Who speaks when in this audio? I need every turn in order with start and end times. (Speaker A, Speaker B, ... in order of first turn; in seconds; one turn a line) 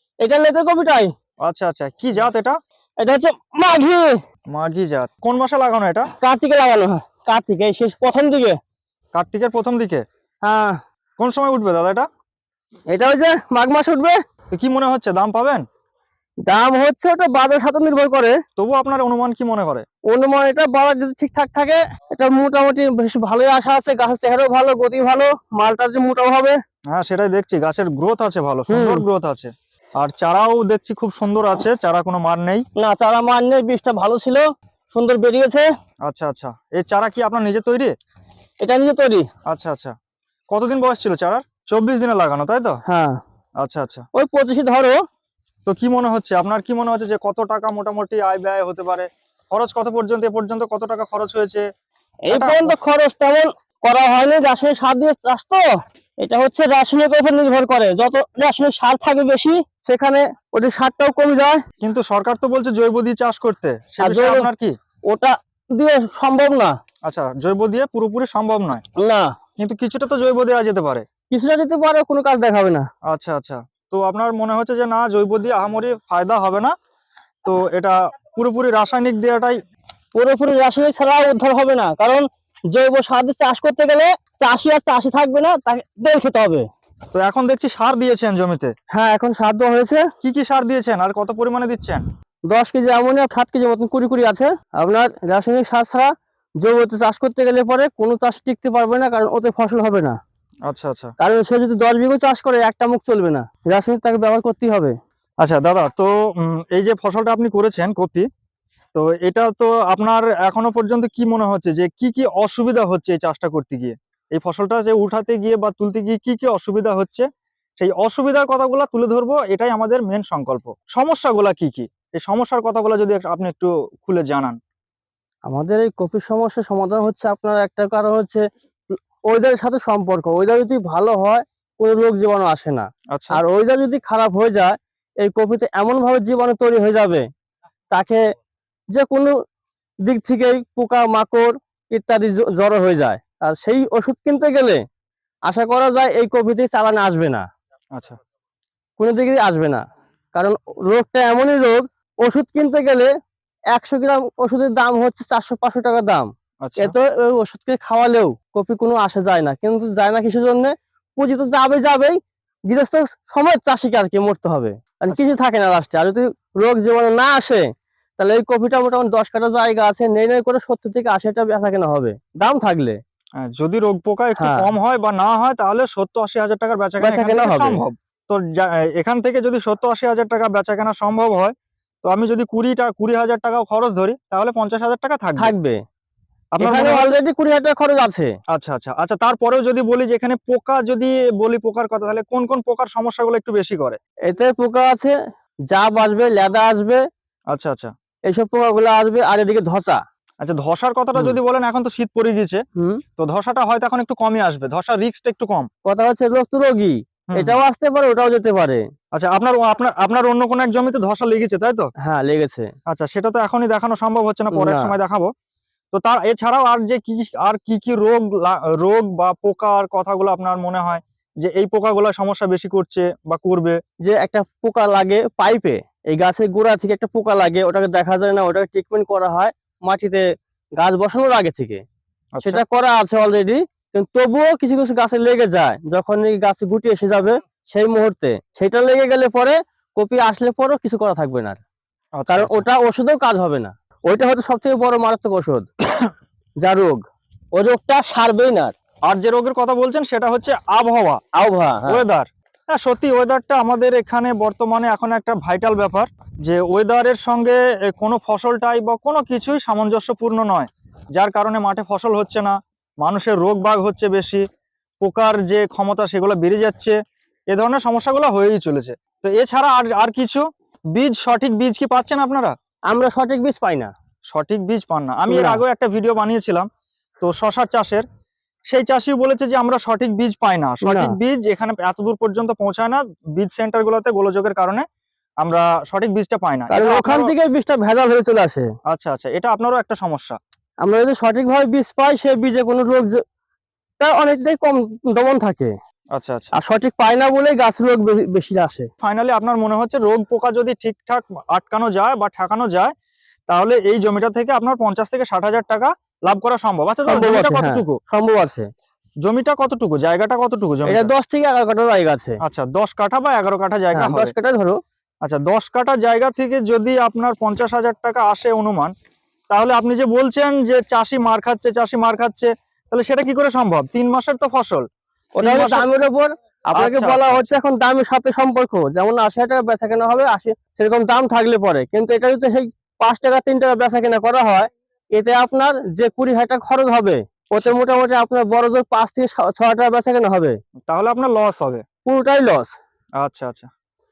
Speaker A: 0.2-1.1
Speaker B: 1.4-2.6
Speaker A: 3.0-4.2
Speaker B: 4.5-6.1
Speaker A: 6.2-8.6
Speaker B: 9.1-10.0
Speaker A: 10.4-10.8
Speaker B: 11.2-12.1
Speaker A: 12.9-14.2
Speaker B: 14.5-15.6
Speaker A: 16.5-18.4
Speaker B: 18.6-19.8
Speaker A: 20.1-26.6
Speaker B: 26.9-32.6
Speaker A: 28.7-29.0
Speaker A: 32.8-35.6
Speaker B: 36.1-37.9
Speaker A: 38.6-39.3
Speaker B: 39.5-39.9
Speaker B: 40.5-42.8
Speaker A: 42.9-43.2
Speaker B: 43.6-44.0
Speaker A: 44.1-45.0
Speaker B: 45.6-51.6
Speaker A: 52.3-55.6
Speaker B: 52.3-52.8
Speaker A: 56.2-61.6
Speaker B: 61.8-64.7
Speaker A: 64.0-64.5
Speaker A: 65.1-66.8
Speaker B: 67.0-68.8
Speaker A: 69.0-69.3
Speaker B: 69.6-71.0
Speaker A: 71.3-72.9
Speaker B: 73.1-76.7
Speaker B: 77.4-79.6
Speaker A: 80.1-86.7
Speaker B: 87.1-88.7
Speaker A: 88.9-90.1
Speaker B: 90.2-92.0
Speaker A: 92.5-100.2
Speaker B: 100.7-101.1
Speaker A: 101.2-104.9
Speaker B: 105.4-108.2
Speaker B: 108.9-117.2
Speaker B: 117.8-124.6
Speaker A: 125.5-128.4
Speaker A: 129.3-137.2
Speaker B: 133.1-133.4
Speaker A: 137.9-138.2
Speaker A: 138.9-139.3
Speaker A: 140.1-144.8
Speaker A: 145.5-147.4
Speaker A: 149.0-149.8
Speaker A: 150.3-153.1
Speaker A: 153.7-167.6
Speaker B: 156.6-156.9
Speaker A: 168.2-173.0
Speaker B: 173.4-185.5
Speaker A: 174.4-174.7
Speaker A: 177.0-177.8
Speaker A: 185.4-185.8
Speaker B: 186.5-187.1
Speaker A: 186.6-188.3
Speaker B: 188.5-194.0
Speaker A: 194.2-195.1
Speaker A: 195.7-197.0
Speaker B: 197.5-197.9
Speaker A: 198.3-200.0
Speaker B: 200.4-202.6
Speaker B: 203.2-205.7
Speaker A: 205.8-208.8
Speaker B: 209.1-211.9
Speaker A: 212.0-212.7
Speaker B: 212.9-215.3
Speaker A: 214.5-214.9
Speaker B: 215.9-223.8
Speaker A: 224.0-230.2
Speaker A: 230.8-231.8
Speaker B: 232.4-232.6
Speaker A: 232.4-241.6
Speaker B: 242.2-242.6
Speaker A: 242.3-245.7
Speaker A: 246.6-247.0
Speaker A: 247.5-248.7
Speaker B: 249.1-251.2
Speaker A: 251.3-252.0
Speaker B: 251.9-264.4
Speaker B: 265.0-266.9
Speaker B: 267.5-270.4
Speaker B: 270.9-272.5
Speaker A: 272.9-273.9
Speaker B: 274.3-276.7
Speaker A: 275.3-275.6
Speaker B: 277.2-278.0
Speaker B: 278.7-284.8
Speaker A: 280.8-281.1
Speaker B: 285.4-287.3
Speaker A: 286.7-288.7
Speaker B: 288.9-290.4
Speaker A: 290.8-293.2
Speaker A: 294.0-295.7
Speaker B: 296.1-296.5
Speaker A: 296.5-298.9
Speaker B: 299.0-302.9
Speaker B: 303.5-308.0
Speaker A: 307.1-308.7
Speaker B: 309.2-311.1
Speaker A: 310.9-312.4
Speaker B: 312.4-314.3
Speaker A: 313.9-314.8
Speaker B: 315.2-318.9
Speaker B: 319.5-324.8
Speaker A: 325.4-340.6
Speaker B: 325.4-325.9
Speaker B: 326.7-327.6
Speaker B: 340.9-341.8
Speaker A: 342.1-342.7
Speaker B: 343.2-343.7